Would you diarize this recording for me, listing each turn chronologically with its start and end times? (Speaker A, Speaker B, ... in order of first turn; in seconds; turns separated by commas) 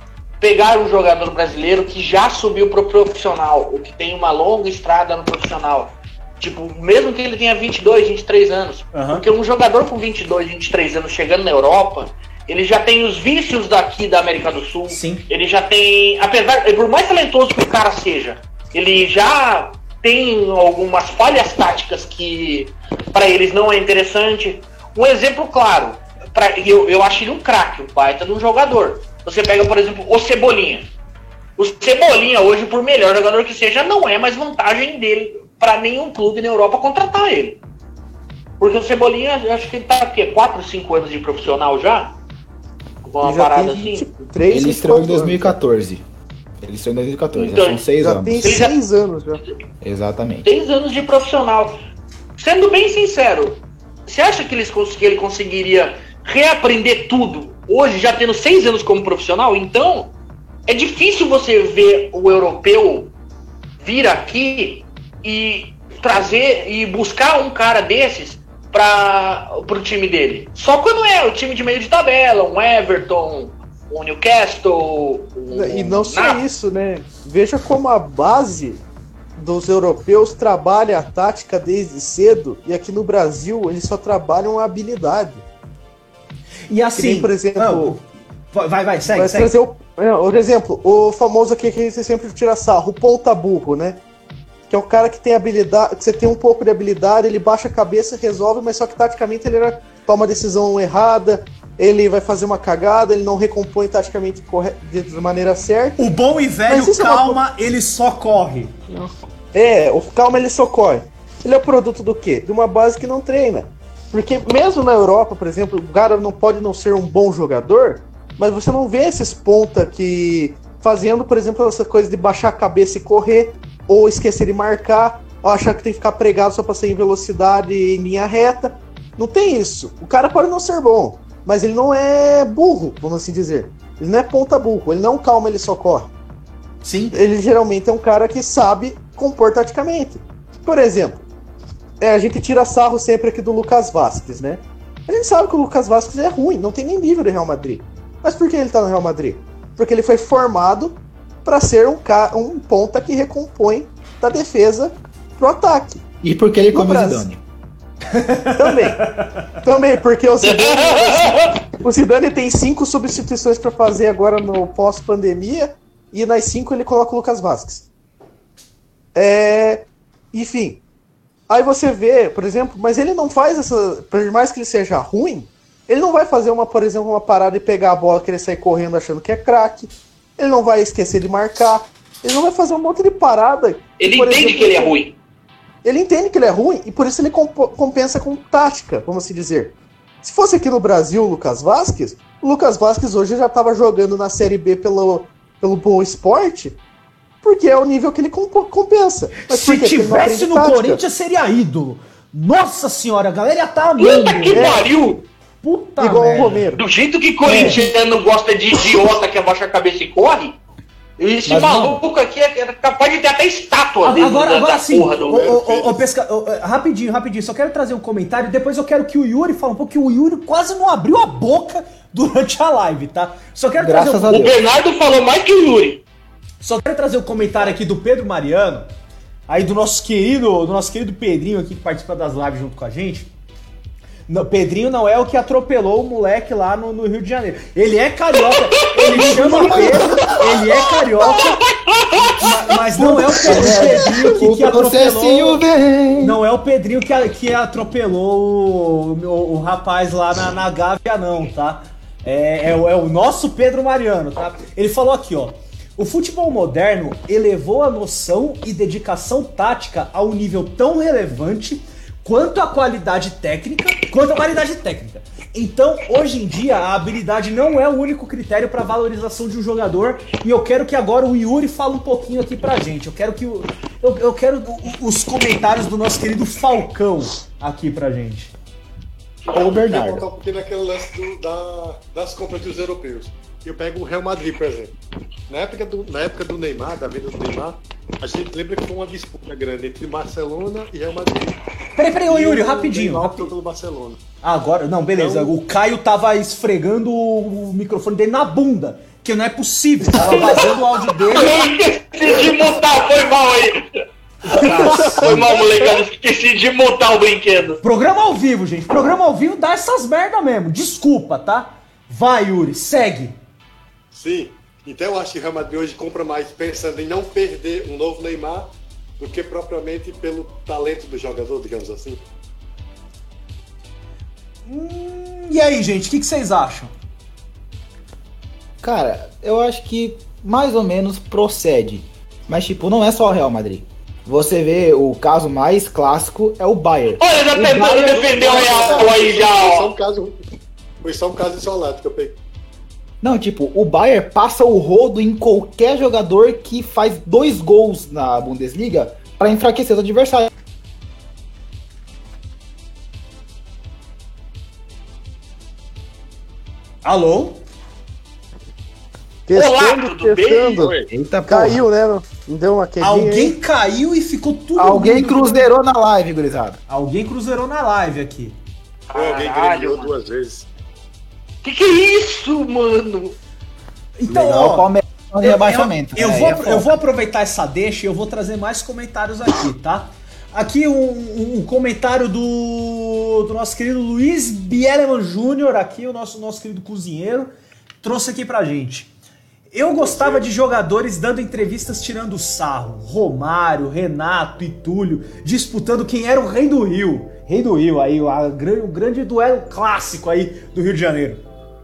Speaker A: 0.4-30.9, Speaker B: 8.9-9.2, Speaker B: 14.9-15.2, Speaker A: 31.6-37.6, Speaker A: 38.6-42.1, Speaker A: 43.1-44.1, Speaker C: 43.2-45.6, Speaker D: 44.5-46.0, Speaker D: 46.6-48.5, Speaker A: 47.4-47.8, Speaker C: 48.0-49.4, Speaker A: 48.4-48.8, Speaker D: 49.8-50.5, Speaker A: 50.4-51.8, Speaker A: 52.4-60.1, Speaker A: 60.7-63.1, Speaker A: 63.8-76.4, Speaker C: 75.5-78.8, Speaker C: 79.4-85.4, Speaker B: 86.7-89.6, Speaker C: 87.0-88.0, Speaker C: 89.1-94.0, Speaker C: 94.7-106.1, Speaker B: 106.0-108.8, Speaker C: 106.7-107.4, Speaker C: 108.9-136.1, Speaker B: 136.8-137.2, Speaker C: 137.1-141.3, Speaker C: 142.0-156.0, Speaker D: 156.2-157.4, Speaker C: 156.7-157.3, Speaker B: 158.1-159.6, Speaker C: 158.6-167.9, Speaker A: 160.4-161.6, Speaker C: 169.2-170.8, Speaker C: 171.5-185.0, Speaker A: 184.0-185.2, Speaker C: 185.8-196.8, Speaker C: 197.4-201.0, Speaker B: 199.4-204.9, Speaker A: 204.0-205.2, Speaker C: 204.5-204.9, Speaker B: 205.6-206.7, Speaker C: 206.0-206.8, Speaker A: 206.7-210.6, Speaker B: 207.4-207.8, Speaker A: 211.2-215.5, Speaker D: 211.5-212.0, Speaker B: 214.0-224.4, Speaker E: 215.3-216.0, Speaker D: 223.8-224.6, Speaker A: 224.3-226.0, Speaker B: 226.6-228.9, Speaker B: 229.5-233.3, Speaker B: 234.3-241.6, Speaker A: 238.5-242.7, Speaker D: 239.1-240.4, Speaker B: 242.3-245.6, Speaker D: 242.7-246.4, Speaker B: 246.2-278.5, Speaker D: 279.5-280.3, Speaker E: 279.7-284.9, Speaker E: 285.5-291.6, Speaker B: 292.0-293.5, Speaker E: 292.2-294.2, Speaker B: 294.4-301.8, Speaker E: 295.2-295.6, Speaker A: 300.3-300.7, Speaker A: 301.3-303.8, Speaker A: 304.4-307.8, Speaker B: 304.5-305.6, Speaker E: 304.7-305.6, Speaker B: 307.8-313.4, Speaker E: 314.1-322.2, Speaker B: 324.7-326.9, Speaker D: 328.8-339.1, Speaker A: 337.2-339.9, Speaker E: 337.9-340.4, Speaker E: 341.0-342.4, Speaker D: 343.2-350.5, Speaker B: 357.0-357.6, Speaker C: 359.5-360.9, Speaker A: 359.5-360.9, Speaker E: 360.8-361.1, Speaker D: 361.1-361.9, Speaker C: 361.5-363.6, Speaker B: 363.0-365.7, Speaker D: 364.8-366.8, Speaker B: 366.9-368.6, Speaker A: 369.1-370.1, Speaker E: 369.1-370.7, Speaker A: 371.6-373.4, Speaker B: 374.2-374.9, Speaker D: 374.3-377.0, Speaker B: 375.4-387.5, Speaker B: 388.0-389.1, Speaker B: 389.7-401.4, Speaker E: 390.0-390.5